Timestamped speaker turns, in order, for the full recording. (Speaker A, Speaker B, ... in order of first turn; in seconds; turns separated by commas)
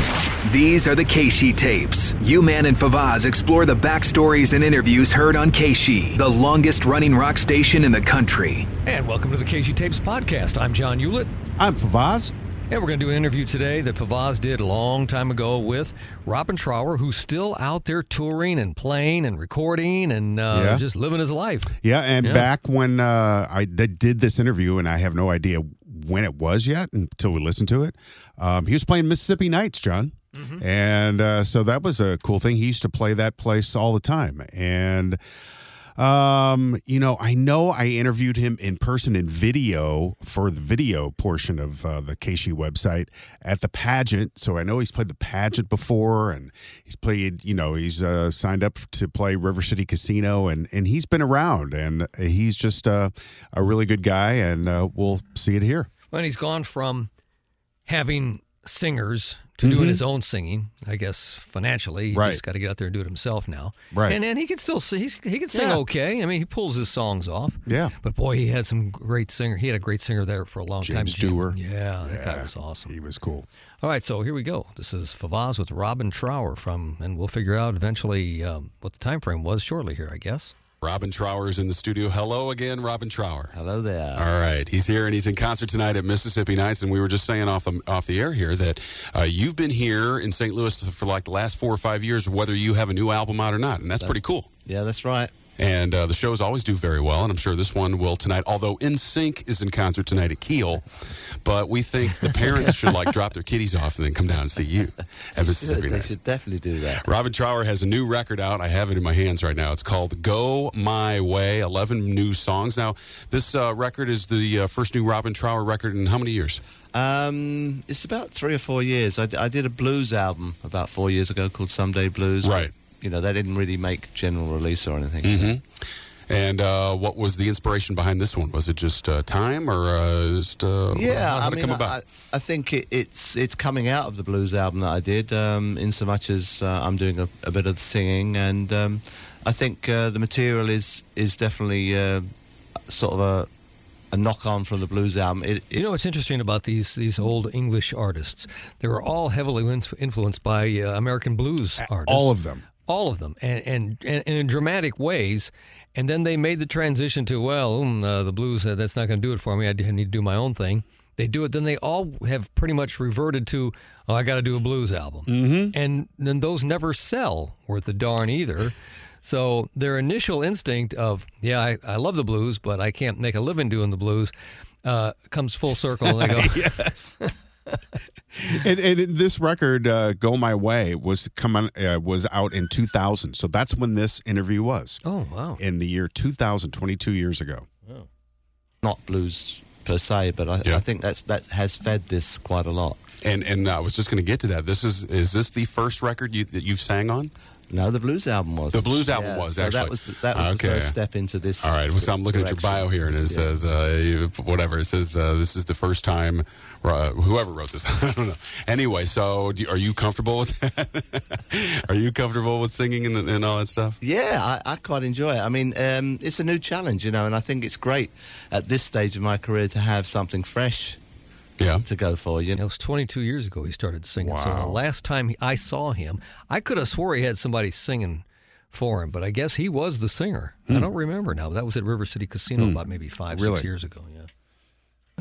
Speaker A: 0.5-8.7, Speaker B: 8.8-11.3, Speaker C: 11.6-12.3, Speaker B: 12.7-22.5, Speaker C: 20.5-20.9, Speaker C: 21.8-35.2, Speaker C: 36.0-55.9, Speaker B: 56.1-57.1, Speaker B: 57.9-73.0, Speaker C: 59.6-60.0, Speaker C: 62.1-62.4, Speaker C: 63.9-64.2, Speaker C: 65.5-65.8, Speaker C: 67.7-67.9, Speaker C: 70.8-73.5, Speaker B: 73.8-80.5, Speaker D: 80.8-83.5, Speaker E: 83.5-84.3, Speaker D: 84.1-94.5, Speaker E: 94.0-95.3, Speaker D: 95.6-106.2, Speaker E: 105.4-107.1, Speaker D: 107.0-116.6, Speaker E: 116.9-125.5, Speaker D: 122.4-122.7, Speaker D: 125.2-125.6, Speaker D: 126.3-132.0, Speaker E: 130.9-142.2, Speaker E: 142.9-143.5, Speaker E: 144.1-145.8, Speaker B: 145.7-174.3, Speaker C: 151.8-152.7, Speaker C: 165.3-165.8, Speaker B: 174.8-177.3, Speaker C: 176.0-177.2, Speaker C: 178.3-185.0, Speaker B: 185.0-185.6, Speaker C: 185.6-187.7, Speaker E: 188.8-193.0, Speaker D: 193.2-197.3, Speaker E: 197.7-203.5, Speaker D: 198.7-201.0, Speaker D: 201.6-214.0, Speaker E: 214.0-221.0, Speaker D: 221.6-221.9, Speaker E: 221.8-222.6, Speaker B: 222.6-234.3, Speaker C: 224.2-224.8, Speaker C: 233.3-233.7